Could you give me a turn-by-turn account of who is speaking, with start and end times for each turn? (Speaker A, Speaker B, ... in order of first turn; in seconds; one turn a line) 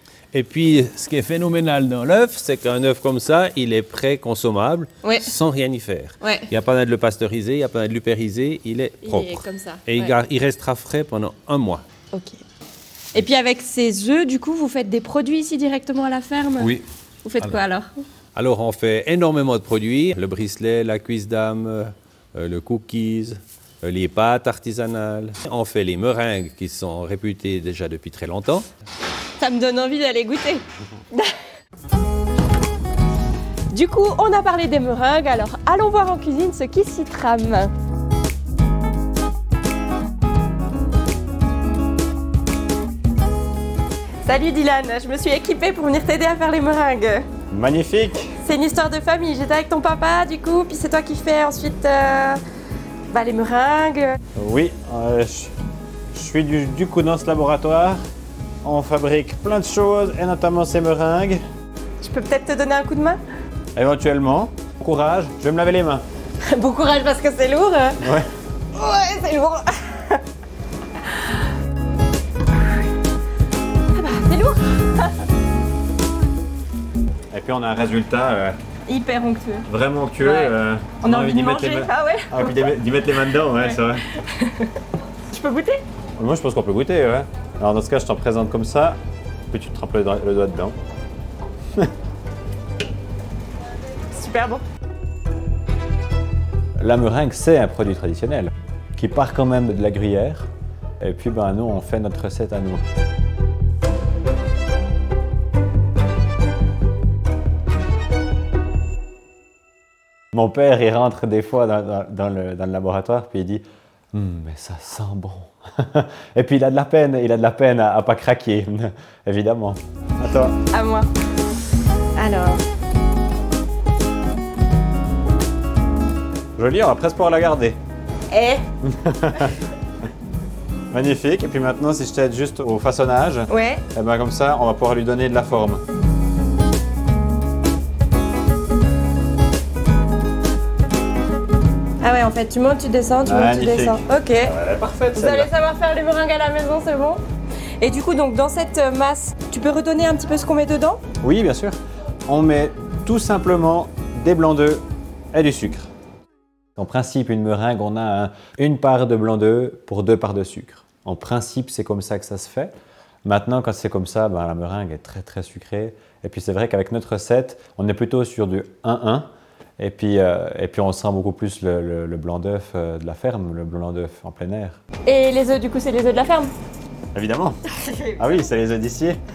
Speaker A: 0.3-11.8
Speaker B: 5.0-5.3
Speaker B: 6.2-6.5
Speaker B: 9.0-10.1
Speaker B: 12.1-12.4
Speaker B: 13.1-17.9
Speaker A: 16.6-16.9
Speaker A: 18.4-28.7
Speaker B: 29.4-31.3
Speaker B: 33.7-37.7
Speaker B: 44.2-47.3
Speaker C: 47.5-48.3
Speaker B: 48.4-52.4
Speaker B: 53.1-54.2
Speaker C: 54.4-55.5
Speaker C: 56.1-58.0
Speaker C: 58.6-61.4
Speaker B: 62.0-63.2
Speaker C: 63.8-66.0
Speaker B: 66.5-68.0
Speaker C: 68.0-68.3
Speaker B: 68.7-70.2
Speaker B: 73.9-75.1
Speaker C: 77.3-78.6
Speaker B: 78.9-79.7
Speaker C: 79.7-84.1
Speaker B: 80.2-82.8
Speaker B: 83.3-84.8
Speaker B: 85.3-85.8
Speaker C: 86.2-89.0
Speaker C: 89.5-90.8
Speaker B: 94.1-94.6
Speaker C: 96.8-100.5
Speaker C: 101.0-102.8
Speaker C: 110.3-120.5
Speaker B: 120.7-121.1
Speaker B: 122.2-122.6
Speaker C: 126.6-127.8
Speaker B: 128.3-128.7
Speaker C: 128.8-129.6
Speaker C: 130.9-135.8
Speaker B: 133.5-133.8
Speaker B: 142.0-144.5
Speaker C: 143.2-145.5
Speaker B: 145.1-147.2
Speaker B: 147.8-151.0
Speaker C: 151.2-155.9
Speaker C: 156.8-162.7
Speaker C: 163.2-174.8
Speaker B: 175.1-176.5
Speaker C: 177.1-177.6
Speaker B: 177.8-178.3
Speaker C: 178.2-179.2